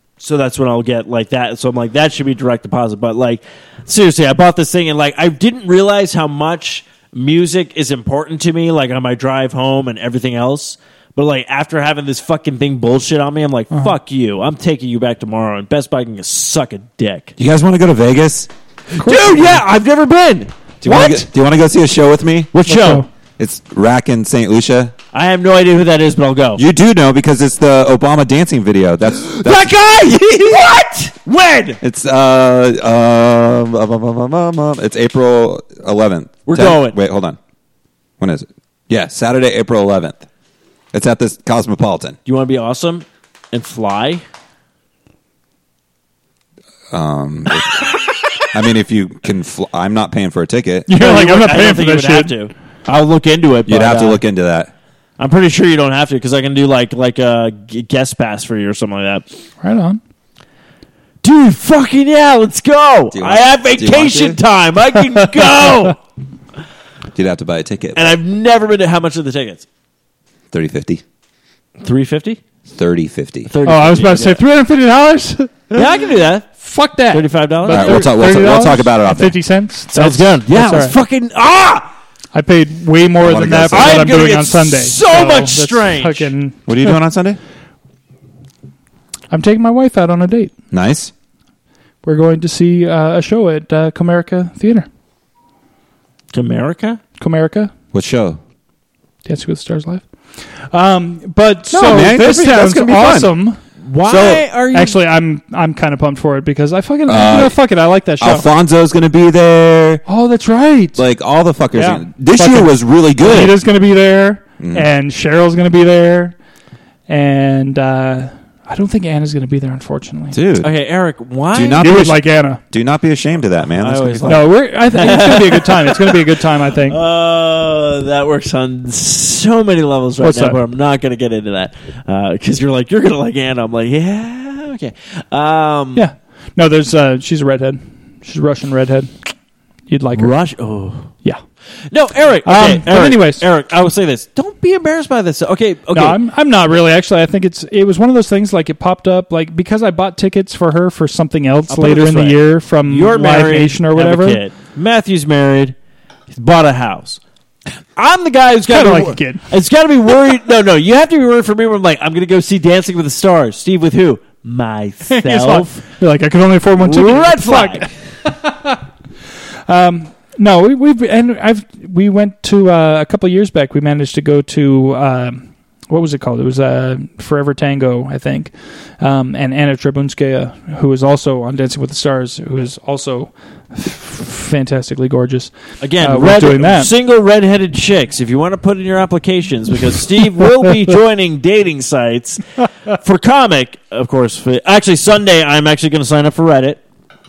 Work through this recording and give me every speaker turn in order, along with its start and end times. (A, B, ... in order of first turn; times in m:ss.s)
0:00.2-0:17.4 A
0:17.4-0:18.5 B
0:18.9-0:21.3 A
0:19.0-0:19.3 C
0:20.8-0:22.5 B
0:22.5-0:23.0 A
0:22.6-0:23.1 C
0:23.4-0:24.9 B
0:25.1-0:26.6 A
0:26.6-0:29.8 B
0:29.2-0:31.8 A
0:31.8-0:37.4 B
0:36.4-0:37.0 A
0:38.2-0:40.2 B
0:40.9-0:42.2 B
0:42.3-0:44.2 A
0:46.9-0:47.9 B
0:48.5-0:50.9 B
0:50.9-0:52.3 C
0:51.0-0:54.2 A
0:53.7-0:54.7 B
0:55.2-0:59.2 A
0:59.6-1:00.0 C
1:01.2-1:06.0 A
1:03.1-1:04.4 B
1:07.2-1:08.1 B
1:07.9-1:09.6 A
1:10.5-1:11.0 B
1:11.8-1:12.4 A
1:12.7-1:13.5 B
1:13.5-1:14.4 A
1:13.6-1:15.8 C
1:15.7-1:16.6 A
1:16.6-1:20.9 C
1:17.1-1:18.1 A
1:17.7-1:19.4 B
1:19.9-1:21.9 A
1:22.3-1:27.0 C
1:23.2-1:24.4 B
1:23.7-1:26.3 A
1:26.7-1:27.4 B
1:29.3-1:30.5 C
1:30.7-1:31.1 B
1:32.0-1:34.9 C
1:36.3-1:37.0 A
1:37.2-1:37.7 C
1:37.9-1:38.4 B
1:39.3-1:40.0 C
1:40.7-1:43.6 C
1:41.7-1:43.4 B
1:41.8-1:42.1 A
1:43.8-1:45.0 A
1:44.0-1:44.4 B
1:44.7-1:48.5 C
1:47.1-1:47.6 B
1:48.2-1:50.0 B
1:50.1-1:51.0 C
1:50.9-1:53.6 B
1:51.7-1:56.4 C
1:54.6-1:54.9 B
1:57.1-2:00.4 C
2:00.3-2:00.7 B
2:00.6-2:01.8 A
2:01.5-2:04.4 B
2:01.8-2:02.6 C
2:03.8-2:16.0 A
2:04.3-2:07.0 C
2:10.2-2:10.6 C
2:15.9-2:19.1 C
2:19.9-2:20.4 C
2:20.2-2:21.1 A
2:21.9-2:26.2 A
2:22.4-2:23.4 C
2:25.9-2:34.4 C
2:31.7-2:35.7 A
2:36.3-2:37.2 A
2:38.0-2:45.8 A
2:38.7-2:39.4 C
2:45.1-2:48.8 C
2:46.8-2:47.9 A
2:49.7-3:06.9 C
3:05.8-3:16.8 A